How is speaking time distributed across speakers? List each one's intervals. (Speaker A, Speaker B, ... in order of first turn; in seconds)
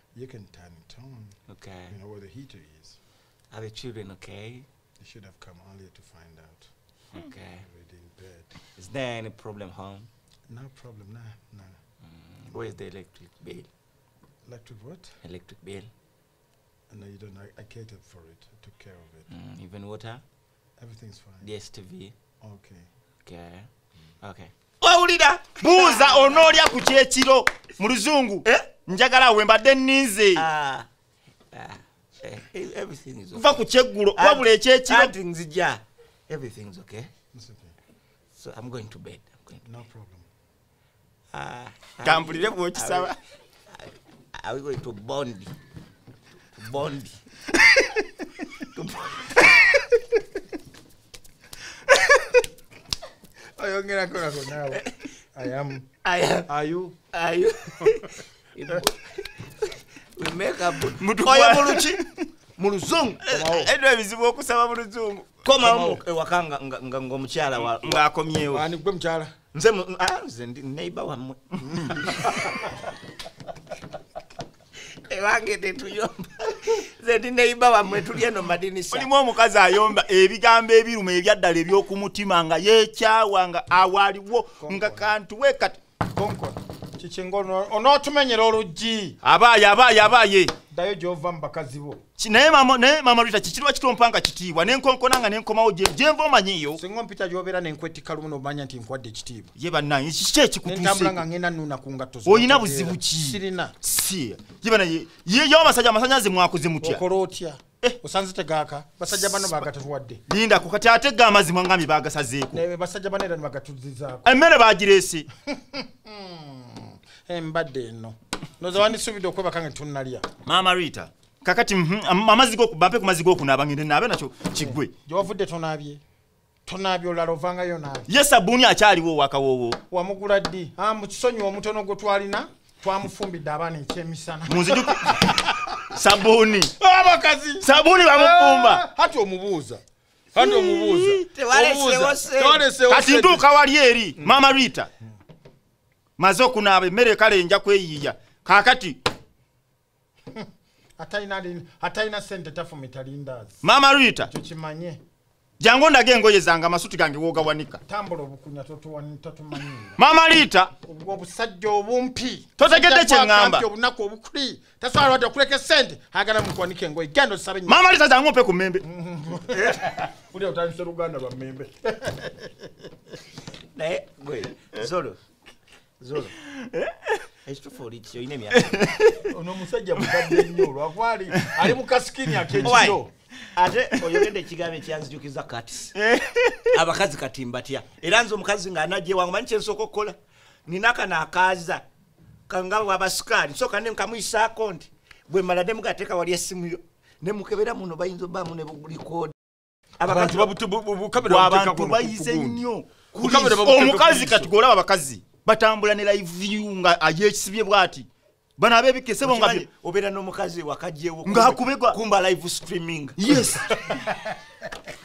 Speaker A: 0.1-1.3, 1.9-3.0, 5.0-6.7, 7.6-8.5, 10.5-11.8, 14.4-15.1, 16.9-19.3, 20.8-21.5, 22.4-22.9, 37.3-37.7, 39.6-40.2, 53.6-55.9, 56.5-57.0, 62.9-63.7, 65.6-66.0, 68.5-69.3, 84.6-85.1, 86.1-89.2, 90.7-92.0, 96.8-99.5, 100.6-103.8, 106.8-110.2, 112.5-114.3, 115.5-120.2, 124.6-126.0, 126.7-128.1, 129.9-135.8, 136.8-139.8, 140.3-143.5, 151.0-153.6, 154.3-155.0, 157.9-160.0, 160.8-167.8, 168.8-172.5, 179.3-183.1, 200.1-204.5, 213.7-214.2
Speaker B: 1.5-1.9, 3.5-4.7, 7.1-7.6, 8.8-10.1, 12.1-13.7, 15.2-15.9, 19.3-20.2, 21.4-22.1, 23.2-23.7, 24.2-26.7, 30.4-30.9, 31.5-33.6, 34.1-37.1, 38.4-39.6, 41.3-43.1, 43.7-45.5, 46.6-47.2, 48.6-49.9, 54.7-55.0, 56.0-56.5, 57.1-62.0, 62.6-63.2, 65.5-68.0, 69.5-72.6, 74.9-79.1, 140.4-142.7, 173.7-175.2, 176.0-176.3, 177.5-178.8, 182.6-183.0, 183.5-185.9, 186.7-191.8, 192.5-199.3, 200.0-200.5, 203.3-203.6, 209.2-213.4
Speaker C: 25.6-30.4, 33.3-35.1, 42.0-43.2, 61.0-62.3, 63.2-65.3, 67.8-68.6, 78.9-85.8, 89.2-90.5, 92.2-96.8, 99.5-101.2, 102.2-107.0, 109.1-109.6, 110.3-112.6, 114.2-115.3, 120.5-124.9, 128.1-129.8, 134.5-136.7, 137.6-138.8, 142.9-144.9, 146.2-149.0, 153.6-154.3, 155.6-157.8, 160.0-160.7, 162.6-163.7, 167.7-168.8, 176.4-177.2, 178.6-179.3, 180.2-180.4, 185.9-186.7, 201.2-202.9, 203.4-208.1, 208.6-209.7, 211.2-212.0, 213.2-213.9